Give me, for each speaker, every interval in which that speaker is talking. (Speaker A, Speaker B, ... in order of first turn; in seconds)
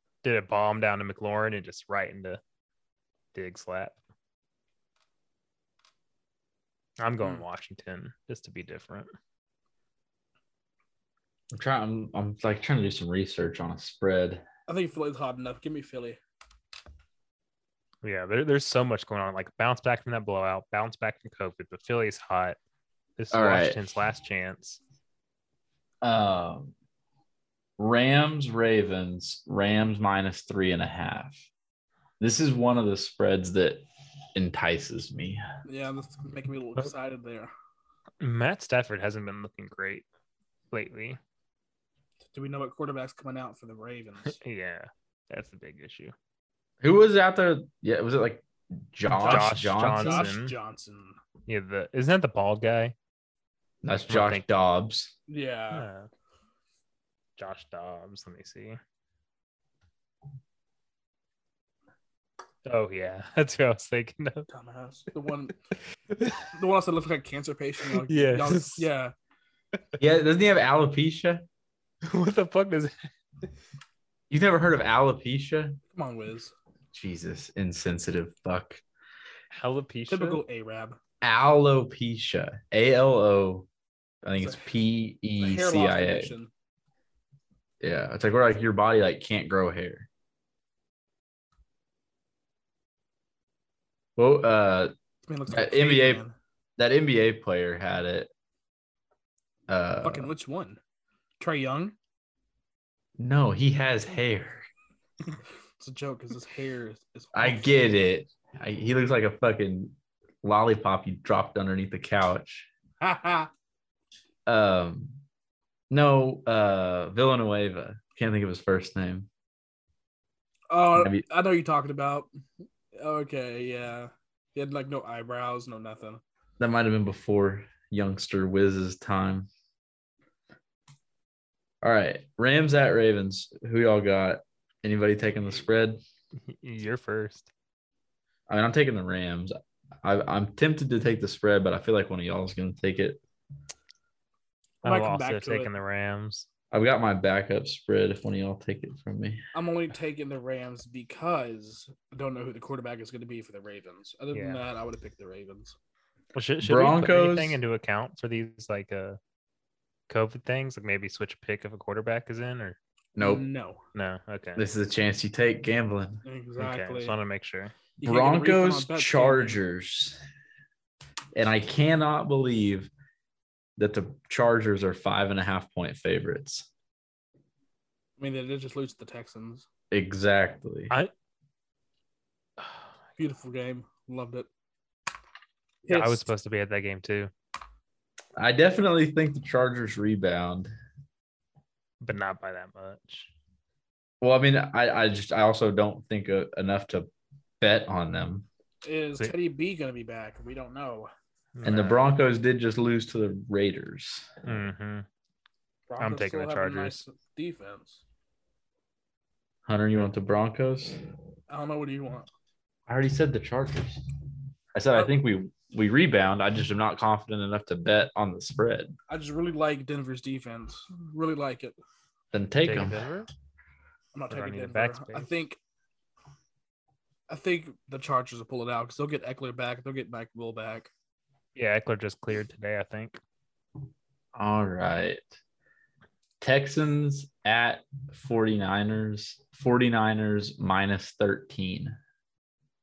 Speaker A: 0.2-2.4, 3.4-4.0, 7.0-9.1, 18.0-22.6, 23.2-24.8, 38.2-40.1, 40.7-41.2, 44.2-46.1, 49.2-50.5, 51.5-53.0, 54.1-54.5, 55.7-56.1, 57.4-58.8, 62.6-64.5, 66.1-66.5, 68.0-68.9, 72.0-73.1, 79.5-80.4, 136.5-137.5, 144.8-146.5, 154.3-154.6, 156.3-159.2, 160.1-162.8, 163.9-164.6, 166.6-167.8, 185.9-187.3, 192.0-193.3, 201.6-202.0, 204.4-205.1, 206.0-207.0, 222.6-223.3, 224.3-225.3, 231.6-233.2
Speaker B: 11.5-14.4, 23.3-23.8, 26.0-26.7, 27.8-31.4, 32.2-33.8, 34.4-35.4, 46.8-50.3, 53.8-55.1, 70.0-71.4, 74.3-75.8, 76.9-78.8, 81.2-83.7, 84.2-86.3, 87.8-90.1, 94.2-94.9, 95.5-96.2, 96.8-98.3, 99.7-100.3, 103.2-104.7, 107.3-112.7, 114.5-115.2, 115.9-119.3, 121.0-121.2, 126.6-129.5, 131.8-136.0, 138.5-143.2, 146.7-149.4, 156.6-157.6, 163.2-163.5, 164.6-166.2, 168.0-170.2, 171.3-172.9, 173.8-176.7, 179.9-180.9, 188.4-190.7, 194.2-197.1, 197.6-198.5, 201.7-204.3, 209.7-211.0, 212.9-214.0, 214.7-219.0, 222.3-223.0, 234.4-235.3, 236.4-242.0
Speaker C: 14.7-16.2, 35.6-37.5, 42.3-44.4, 49.2-51.2, 55.3-55.9, 64.5-65.6, 66.5-69.1, 75.9-76.5, 80.1-81.0, 85.4-86.5, 95.3-96.3, 100.0-100.8, 101.4-102.0, 105.8-107.8, 113.0-113.5, 120.7-122.3, 123.0-126.2, 144.8-145.7, 149.5-155.8, 163.2-163.8, 166.2-167.2, 168.0-169.6, 178.2-179.7, 183.2-184.5, 185.8-186.3, 198.8-201.1, 205.9-208.0, 211.5-212.3, 219.1-221.8, 224.1-225.6, 227.3-230.9